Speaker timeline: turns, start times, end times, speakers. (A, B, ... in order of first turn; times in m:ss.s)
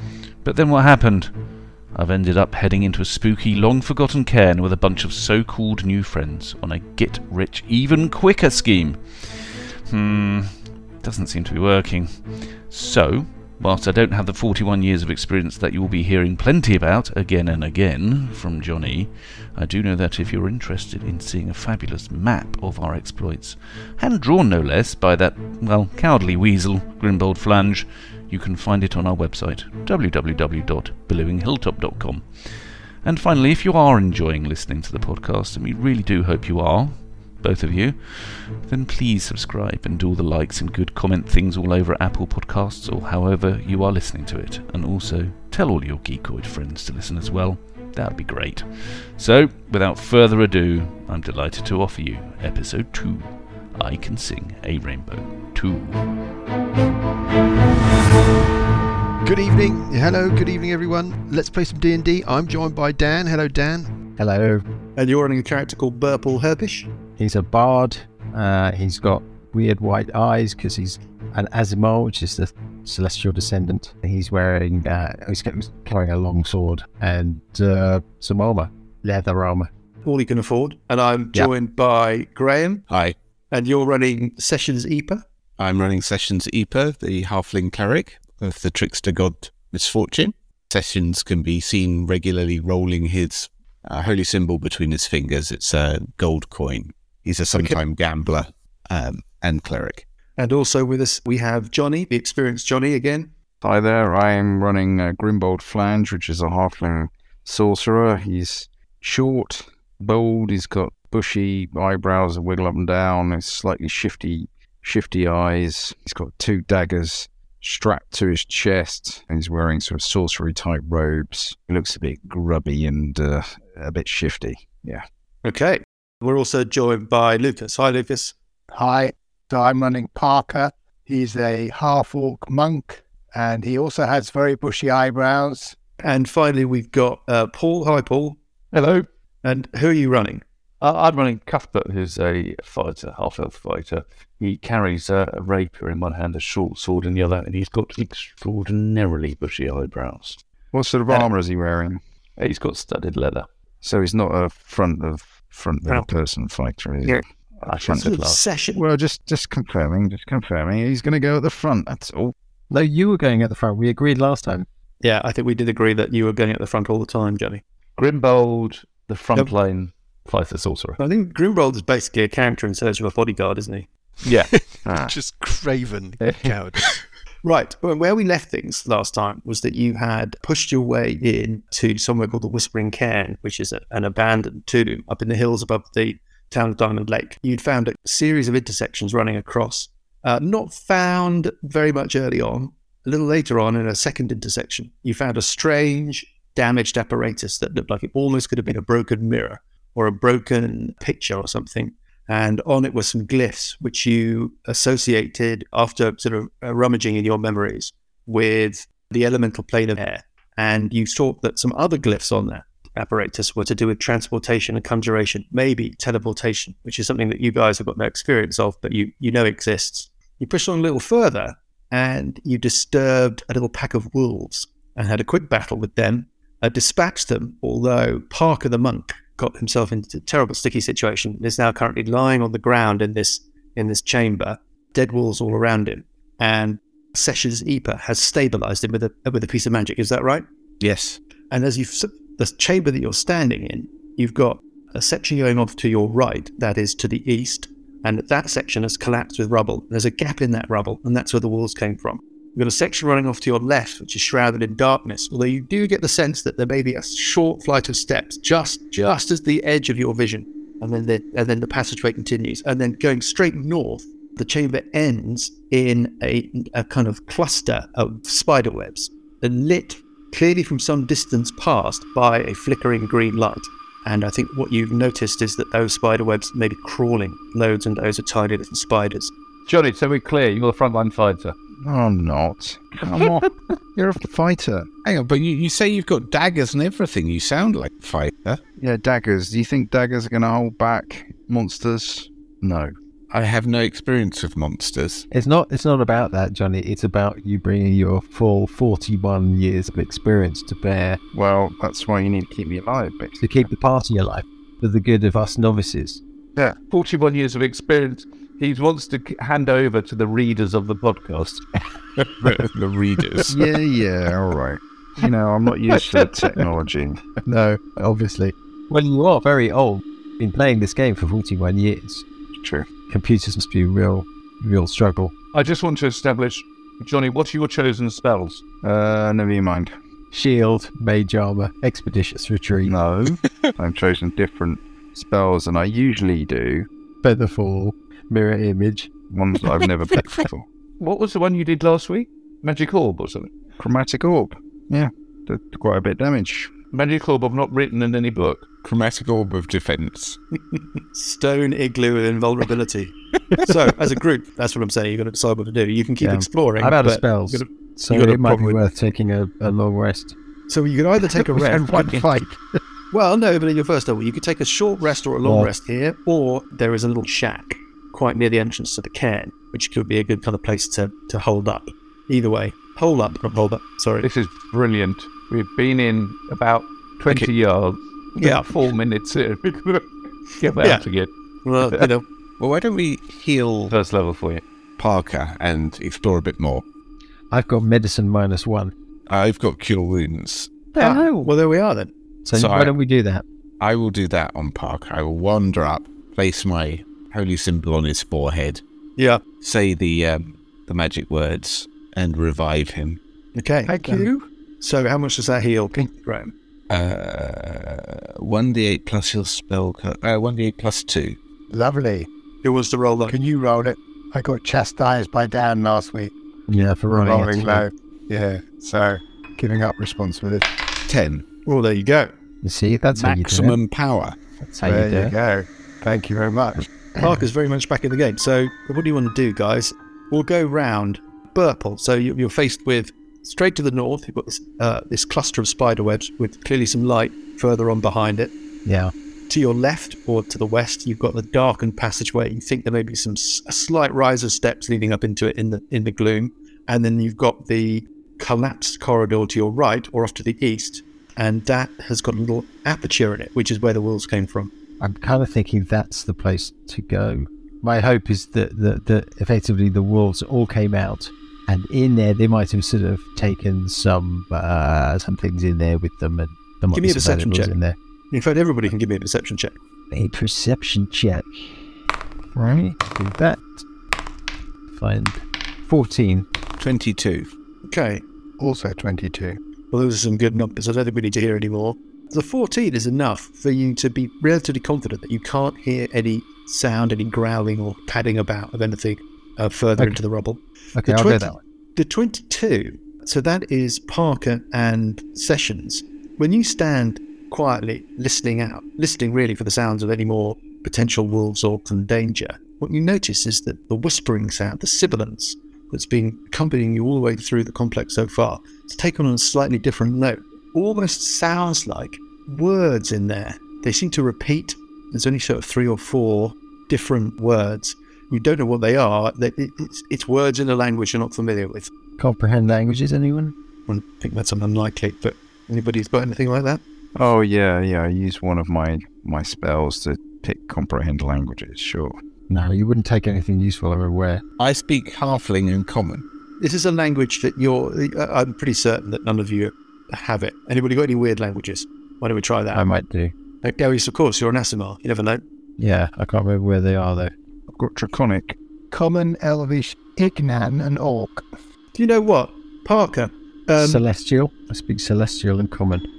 0:00.4-0:01.3 A
0:01.9-0:56.0 A
0:59.2-1:03.9 B
1:04.2-1:04.6 C
1:05.0-1:06.9 D
1:07.2-1:19.7 C
1:20.0-1:22.8 D
1:22.9-1:23.1 E
1:23.5-1:25.2 D
1:25.6-1:40.0 E
1:40.4-1:43.3 D
1:43.6-2:05.0 F
2:05.4-2:08.3 D
2:08.7-2:15.7 G
2:16.0-2:18.4 D
2:18.7-2:19.0 H
2:19.4-2:20.4 D
2:20.8-2:30.4 H
2:30.7-2:32.0 F
2:32.4-2:33.5 H
2:33.8-2:38.2 F
2:37.6-2:38.4 H
2:38.0-2:38.8 D
2:38.8-2:42.3 F
2:42.7-2:44.6 C
2:45.0-2:47.6 D
2:48.0-2:51.0 H
2:51.0-2:53.9 D
2:54.2-2:54.5 H
2:54.5-2:57.0 B
2:56.2-2:56.6 H
2:57.4-4:00.4 D
4:00.8-4:01.2 E
4:01.5-4:39.3 D
4:39.7-4:41.6 H
4:41.8-4:44.9 F
4:43.0-4:43.4 H
4:45.0-4:48.6 E
4:48.8-4:52.9 F
4:53.3-4:55.2 E
4:55.3-5:01.2 C
5:01.3-5:03.4 F
5:03.4-5:06.2 C
5:06.7-5:11.6 H
5:12.4-5:13.6 E
5:13.5-5:17.2 F
5:15.9-5:16.3 H
5:17.4-5:22.2 C
5:22.5-5:22.9 F
5:23.1-5:25.3 C
5:25.5-5:28.6 H
5:28.8-5:29.9 F
5:30.3-5:32.9 C
5:32.8-5:36.9 F
5:37.2-5:39.1 C
5:39.3-5:40.6 F
5:41.0-5:43.5 H
5:43.8-5:46.7 F
5:46.9-5:48.7 H
5:48.8-5:50.4 E
5:50.5-5:58.8 D
5:56.2-6:00.3 C
6:00.7-6:02.3 D
6:01.8-6:02.5 G
6:03.1-6:14.2 D
6:05.4-6:05.7 C
6:14.2-6:20.0 H
6:18.4-6:18.7 D
6:20.6-6:21.3 H
6:20.8-6:21.0 D
6:21.6-6:22.2 D
6:22.6-6:23.9 E
6:23.9-6:24.6 H
6:25.0-6:26.8 E
6:27.5-6:28.9 C
6:29.3-6:30.9 E
6:31.0-6:31.5 C
6:31.0-6:32.1 D
6:32.4-6:33.4 C
6:32.5-6:32.9 E
6:33.8-6:38.8 E
6:39.2-6:39.5 D
6:39.6-6:43.2 E
6:43.5-6:46.5 D
6:43.9-6:44.4 G
6:46.9-6:51.4 E
6:51.7-6:52.3 G
6:52.6-6:53.4 D
6:53.3-6:56.3 G
6:56.7-6:57.8 C
6:57.1-7:00.7 G
7:01.1-7:01.4 E
7:01.6-7:02.3 D
7:02.6-7:03.8 C
7:03.1-7:04.4 E
7:04.7-7:05.3 C
7:04.8-7:06.9 G
7:07.2-7:18.5 D
7:18.8-7:19.1 C
7:19.5-7:34.7 D
7:35.0-7:48.0 C
7:46.9-7:47.7 D
7:48.3-7:49.7 D
7:50.1-7:51.8 C
7:52.6-7:53.8 C
7:54.9-7:56.4 C
7:56.8-7:57.5 E
7:57.8-7:58.2 D
7:58.6-7:59.6 G
7:59.9-8:41.9 D
8:11.0-8:11.6 C
8:42.2-8:43.5 C
8:43.9-8:46.8 D
8:47.1-8:52.2 F
8:52.5-8:54.4 C
8:54.6-8:56.2 E
8:56.6-9:02.8 D
9:02.7-9:03.3 C
9:03.6-9:05.4 D
9:05.8-9:07.3 C
9:07.7-9:08.6 F
9:08.9-9:11.4 G
9:11.9-9:14.0 D
9:13.8-9:16.0 C